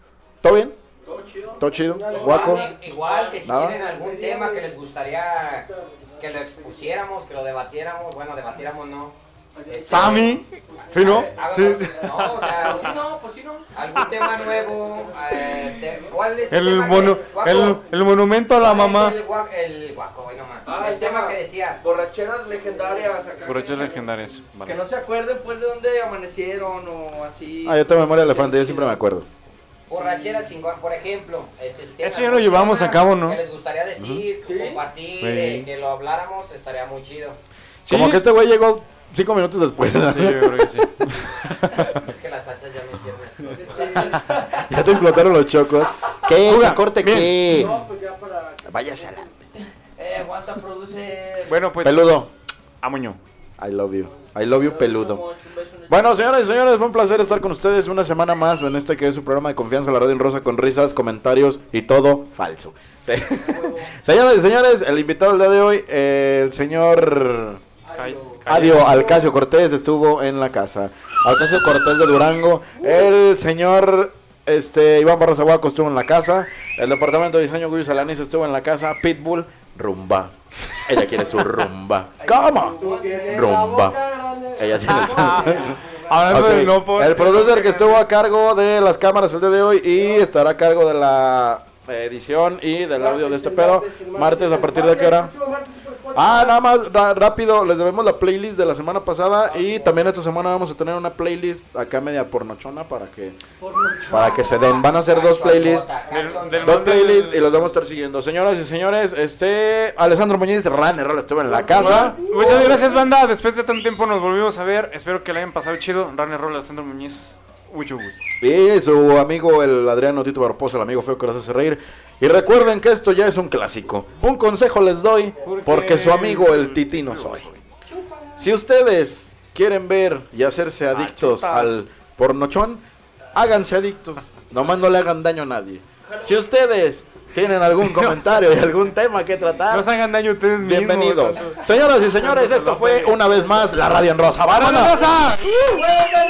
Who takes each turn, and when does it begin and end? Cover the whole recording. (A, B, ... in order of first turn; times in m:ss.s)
0:00.4-0:00.8 A
0:01.0-0:03.4 B
0:01.6-0:02.6 A
0:01.7-0:02.8 C
0:02.1-0:13.0 D
0:03.4-0:03.8 A
0:03.8-0:04.5 C
0:09.6-0:10.3 B
0:09.9-0:12.8 E
0:12.6-0:13.7 B
0:13.7-0:17.8 D
0:16.5-0:19.2 E
0:18.6-0:21.8 D
0:20.6-0:24.1 B
0:23.4-0:24.8 E
0:24.6-0:29.0 B
0:27.6-0:29.3 A
0:29.9-0:37.4 D
0:29.9-0:30.4 B
0:32.0-0:33.4 E
0:34.0-0:34.2 A
0:34.4-0:34.8 B
0:35.2-0:35.7 E
0:37.8-0:38.2 E
0:37.9-0:41.1 A
0:39.9-0:41.9 E
0:41.9-0:44.2 D
0:43.6-0:44.7 B
0:44.3-0:47.8 A
0:46.4-0:47.4 E
0:47.5-0:47.8 B
0:47.6-0:49.2 C
0:48.6-0:49.5 A
0:49.6-0:51.7 B
0:51.5-0:53.2 E
0:51.8-0:52.3 A
0:53.6-0:55.2 A
0:54.5-0:56.2 B
0:55.9-1:07.6 A
1:03.3-1:03.9 B
1:07.8-1:08.5 B
1:07.9-1:09.1 E
1:08.5-1:24.0 A
1:22.2-1:23.5 B
1:22.8-1:26.3 C
1:24.6-1:35.3 A
1:24.9-1:28.0 E
1:33.0-1:36.6 C
1:36.1-1:43.4 A
1:39.5-1:40.0 B
1:43.6-1:44.4 B
1:44.1-1:45.9 A
1:44.9-1:47.0 D
1:46.1-1:47.5 E
1:46.6-1:53.0 A
1:51.7-1:58.2 E
1:51.9-1:52.7 C
1:58.4-2:07.6 A
2:05.4-2:07.4 E
2:07.9-2:08.5 D
2:08.4-2:12.8 A
2:10.9-2:11.8 E
2:13.3-2:19.9 A
2:17.8-2:18.4 E
2:19.7-2:23.2 E
2:20.6-2:25.0 A
2:24.5-2:25.6 E